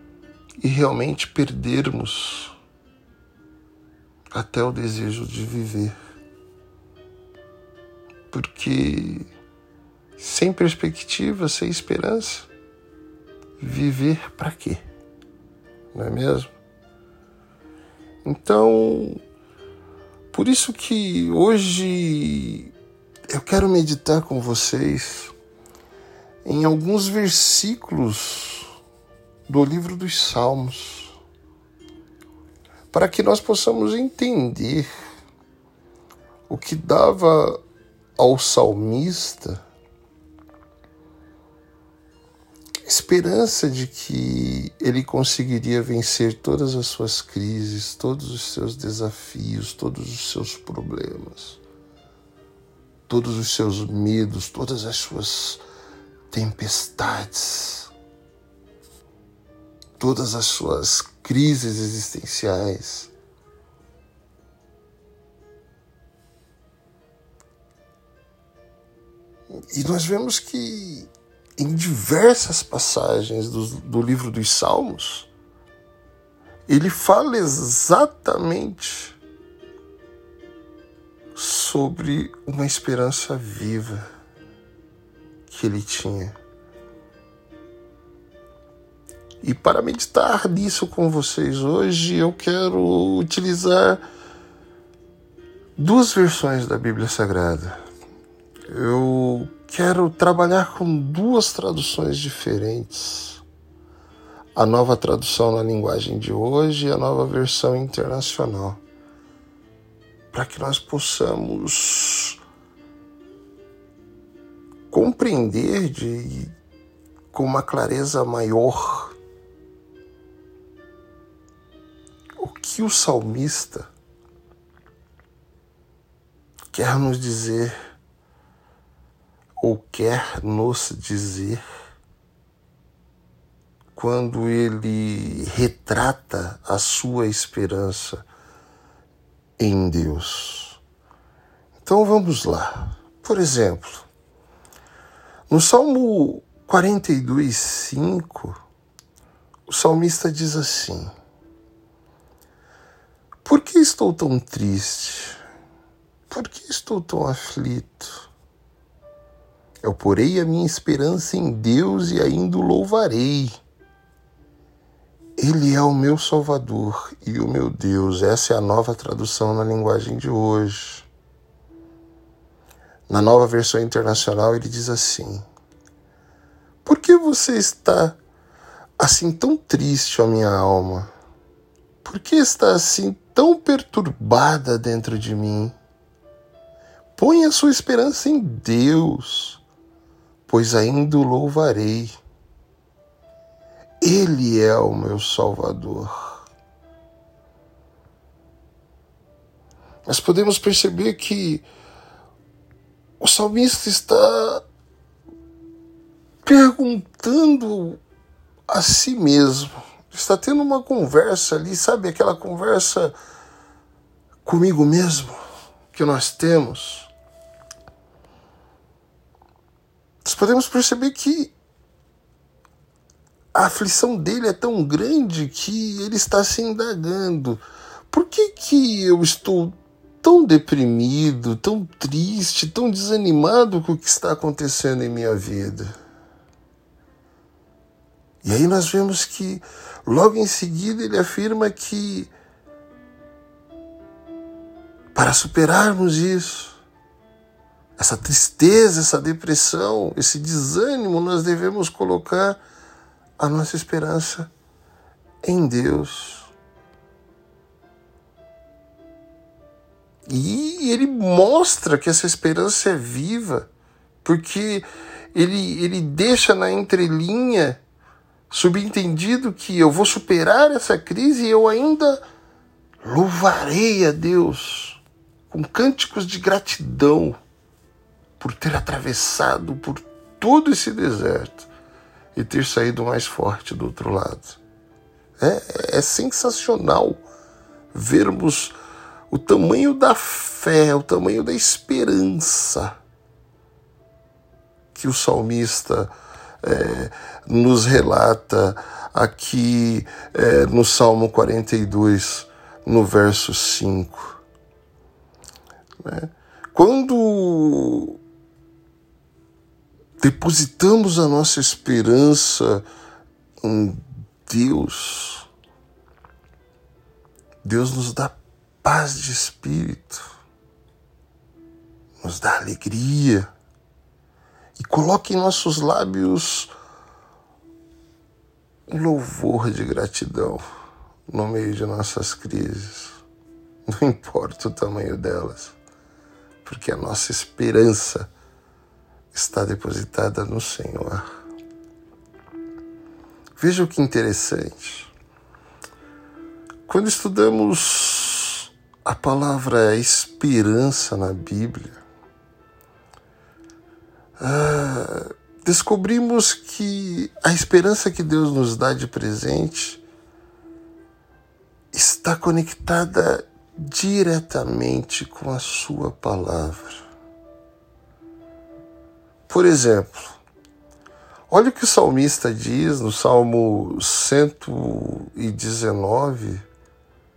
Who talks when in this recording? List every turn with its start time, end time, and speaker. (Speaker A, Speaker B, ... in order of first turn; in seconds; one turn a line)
Speaker A: 0.6-2.5
Speaker A: 4.3-6.0
Speaker A: 8.3-9.3
Speaker A: 10.2-12.5
Speaker A: 13.6-14.8
Speaker A: 15.9-16.5
Speaker A: 18.2-19.2
Speaker A: 20.3-22.7
Speaker A: 23.3-25.3
Speaker A: 26.4-28.7
Speaker A: 29.5-31.1
Speaker A: 32.9-34.9
Speaker A: 36.5-37.6
Speaker A: 38.2-39.6
Speaker A: 42.9-51.6
Speaker A: 53.1-55.6
Speaker A: 56.3-57.9
Speaker A: 60.0-63.1
Speaker A: 69.7-75.3
Speaker A: 76.7-79.2
Speaker A: 81.3-84.1
Speaker A: 85.5-86.3
Speaker A: 89.4-94.0
Speaker A: 95.8-97.8
Speaker A: 98.7-103.4
Speaker A: 104.5-108.8
Speaker A: 110.3-112.4
Speaker A: 114.9-116.5
Speaker A: 117.3-119.2
Speaker A: 122.4-123.9
Speaker A: 126.7-127.7
Speaker A: 129.6-131.6
Speaker A: 133.9-138.2
Speaker A: 139.6-140.8
Speaker A: 141.8-144.1
Speaker A: 145.5-148.6
Speaker A: 149.7-151.1
Speaker A: 153.4-155.4
Speaker A: 156.3-158.3
Speaker A: 159.8-163.6
Speaker A: 165.4-171.1
Speaker A: 173.1-175.4
Speaker A: 176.8-178.2
Speaker A: 179.0-181.1
Speaker A: 182.0-185.8
Speaker A: 187.2-189.6
Speaker A: 190.5-192.2
Speaker A: 194.0-196.4
Speaker A: 200.1-201.7
Speaker A: 203.2-204.6
Speaker A: 206.4-208.0
Speaker A: 208.7-213.1
Speaker A: 214.4-217.1
Speaker A: 220.2-221.5
Speaker A: 223.5-235.9
Speaker A: 238.4-242.3
Speaker A: 245.1-246.8
Speaker A: 248.0-252.6
Speaker A: 253.4-254.5
Speaker A: 255.4-256.5
Speaker A: 260.2-263.7
Speaker A: 264.2-267.8
Speaker A: 268.5-272.2
Speaker A: 273.0-277.4
Speaker A: 278.4-281.7
Speaker A: 282.3-284.6
Speaker A: 285.4-287.2
Speaker A: 287.9-288.8
Speaker A: 289.3-293.0
Speaker A: 294.9-304.4
Speaker A: 306.0-308.2
Speaker A: 310.2-312.8
Speaker A: 313.6-315.5
Speaker A: 317.6-320.2
Speaker A: 322.2-323.5
Speaker A: 324.8-326.7
Speaker A: 328.9-330.6
Speaker A: 331.3-333.2
Speaker A: 333.9-335.8
Speaker A: 336.6-338.3
Speaker A: 339.3-341.4
Speaker A: 343.6-345.1
Speaker A: 346.9-352.0
Speaker A: 354.4-360.0
Speaker A: 361.9-367.0
Speaker A: 369.5-370.4
Speaker A: 371.5-376.6